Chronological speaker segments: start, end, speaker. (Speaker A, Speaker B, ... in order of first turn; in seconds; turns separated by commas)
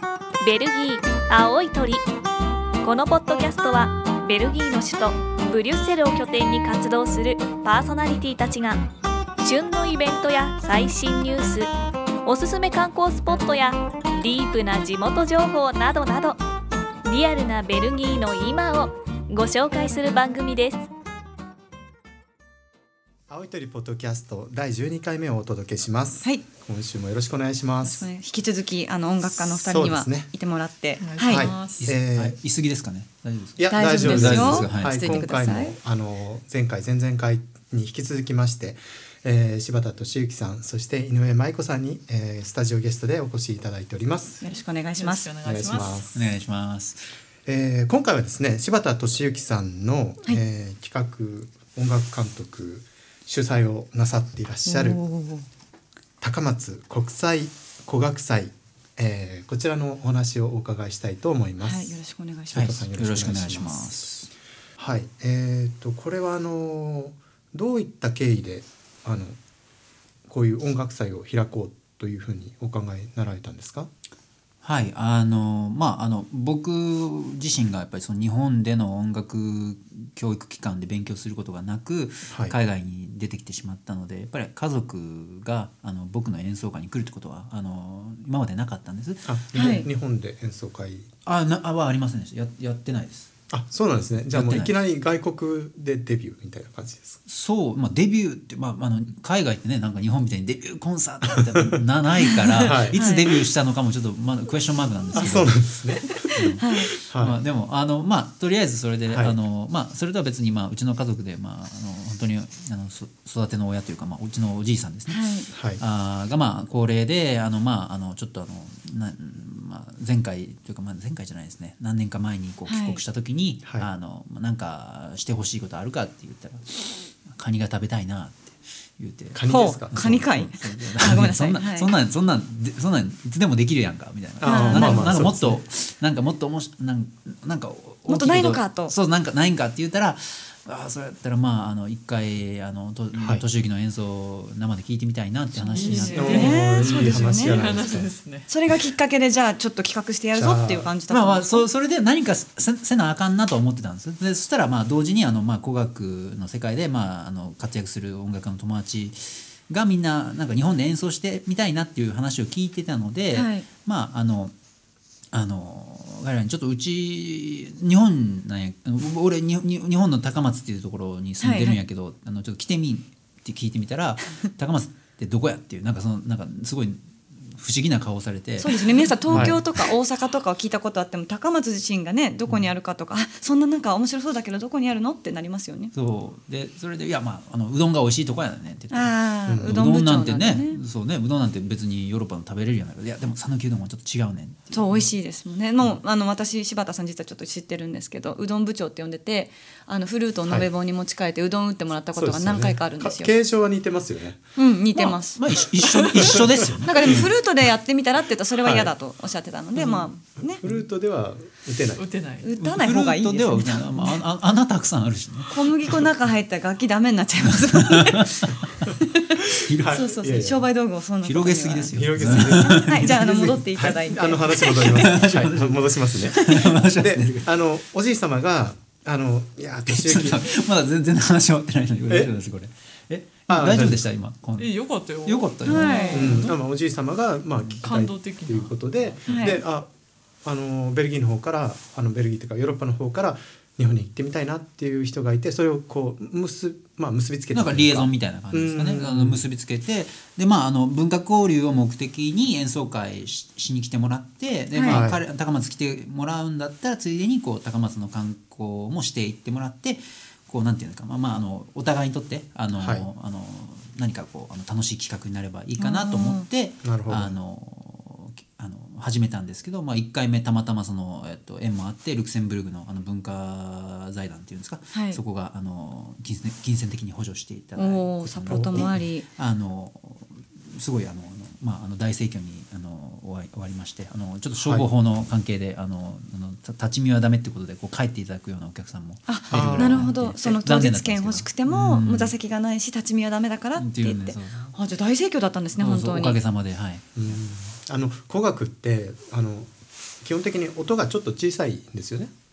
Speaker A: 0.4-2.0, Speaker A: 2.8-8.8, Speaker A: 9.4-11.7, Speaker A: 12.2-16.4, Speaker A: 17.0-20.8, Speaker B: 23.3-28.1, Speaker C: 27.8-31.5, Speaker B: 29.3-30.3, Speaker D: 31.0-31.9, Speaker B: 31.2-32.4, Speaker E: 31.8-35.2, Speaker B: 33.6-44.4, Speaker C: 33.7-35.8, Speaker C: 44.4-45.3, Speaker D: 44.4-46.1, Speaker B: 45.4-46.1, Speaker E: 46.1-47.1, Speaker B: 47.5-55.0, Speaker C: 54.6-55.5, Speaker B: 56.2-62.0, Speaker C: 61.6-62.7, Speaker B: 62.5-64.0, Speaker E: 62.5-64.3, Speaker B: 64.8-69.4, Speaker B: 70.3-73.9, Speaker E: 74.6-89.9, Speaker B: 82.3-82.5, Speaker B: 89.2-91.1, Speaker C: 89.5-89.9, Speaker E: 91.2-93.3, Speaker B: 93.5-97.2, Speaker E: 94.2-94.8, Speaker E: 97.3-105.8, Speaker B: 101.2-101.8, Speaker B: 102.6-103.0, Speaker C: 102.9-103.3, Speaker B: 105.2-107.4, Speaker E: 106.3-146.6, Speaker C: 106.6-106.9, Speaker B: 109.1-109.4, Speaker C: 115.1-115.5, Speaker B: 115.5-115.8, Speaker C: 122.7-123.0, Speaker B: 129.3-130.0, Speaker C: 129.4-131.9, Speaker B: 134.4-135.6, Speaker C: 134.4-135.2, Speaker C: 138.1-138.9, Speaker B: 143.1-143.4, Speaker D: 145.6-148.5, Speaker C: 145.7-147.7, Speaker B: 146.1-148.1, Speaker C: 148.5-151.7, Speaker B: 150.3-150.9, Speaker E: 151.1-164.5, Speaker C: 163.3-163.7, Speaker E: 165.3-179.6, Speaker C: 171.4-171.8, Speaker C: 178.6-185.9, Speaker B: 179.3-179.6, Speaker E: 185.9-195.1, Speaker C: 188.9-190.8, Speaker B: 189.5-189.8, Speaker C: 194.7-203.3, Speaker B: 202.1-204.4, Speaker C: 204.6-205.4, Speaker E: 204.9-207.2, Speaker C: 206.0-210.6, Speaker B: 208.6-208.9, Speaker B: 209.8-212.1, Speaker D: 211.9-212.5, Speaker C: 212.4-214.2, Speaker E: 212.6-215.5, Speaker C: 215.5-225.1, Speaker E: 217.6-218.1, Speaker E: 219.6-220.1, Speaker B: 219.7-220.7, Speaker E: 221.2-223.6, Speaker B: 221.9-230.5, Speaker E: 224.7-227.5, Speaker E: 229.9-236.1, Speaker B: 232.1-232.3, Speaker B: 233.5-234.1, Speaker D: 234.6-236.6, Speaker C: 235.6-236.5, Speaker B: 236.1-239.9, Speaker D: 237.8-239.6, Speaker C: 239.2-239.6, Speaker B: 240.4-249.4, Speaker E: 247.5-292.3, Speaker C: 254.7-255.0, Speaker B: 254.9-255.2, Speaker B: 262.7-263.1, Speaker C: 265.8-266.4, Speaker B: 266.8-267.4, Speaker C: 274.9-275.2, Speaker C: 277.8-279.3, Speaker B: 278.5-278.9, Speaker B: 284.6-284.9, Speaker C: 289.3-296.4, Speaker B: 289.5-290.1, Speaker E: 293.7-294.7, Speaker E: 295.8-297.4, Speaker B: 297.1-299.7, Speaker B: 300.2-302.3